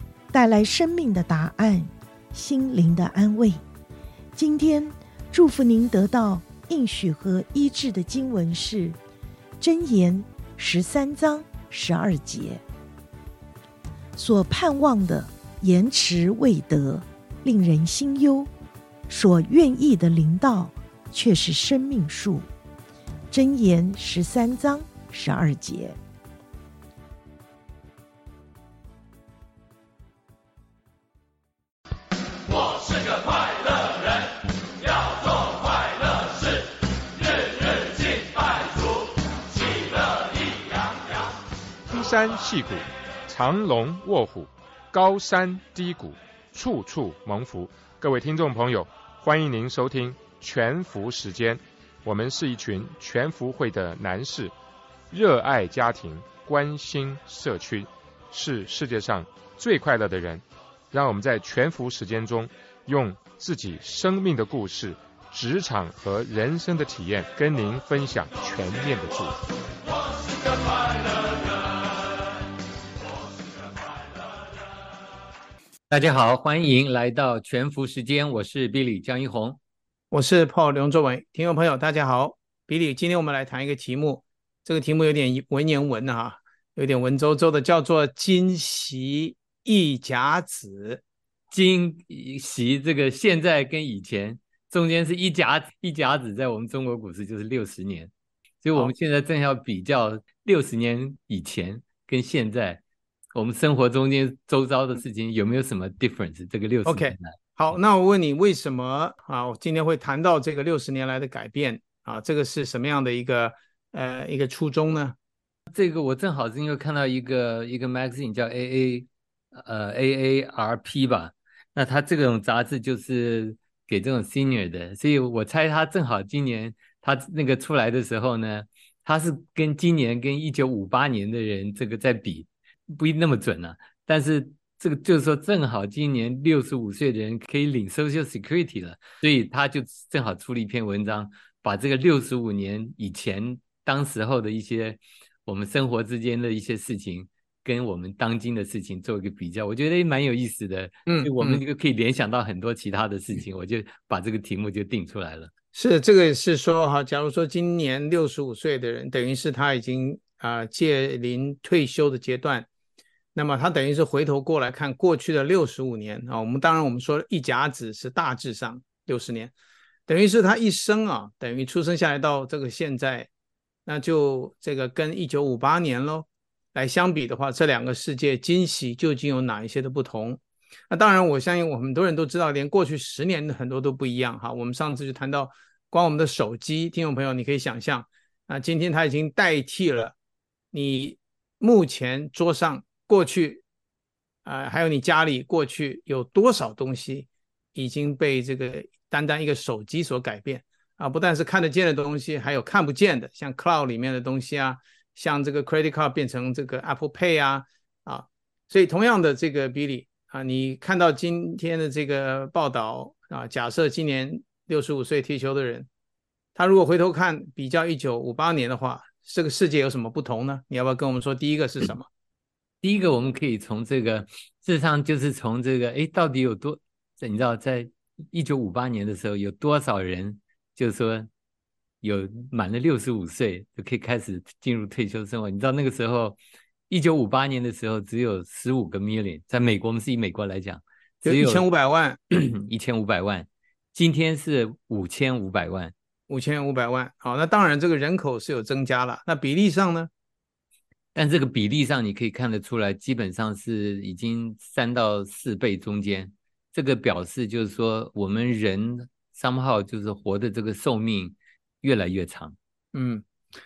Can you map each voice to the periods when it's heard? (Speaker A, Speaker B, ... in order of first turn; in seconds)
Speaker A: 0.3-3.6, 4.4-9.0, 9.6-12.6, 14.2-18.5, 19.1-22.5, 23.3-26.0
Speaker B: 41.9-54.5, 55.1-69.4
Speaker C: 75.9-79.6, 91.5-98.1, 98.6-102.8, 103.3-107.3, 115.7-155.5, 222.8-231.3, 232.0-241.7, 242.3-245.9, 251.2-262.6
Speaker D: 80.1-91.0, 106.9-115.2, 151.1-151.6, 155.7-162.7, 163.3-169.5, 170.1-173.3, 173.9-190.2, 190.7-193.6, 194.4-215.9, 216.6-222.1, 241.2-242.2, 246.3-250.1, 262.9-263.2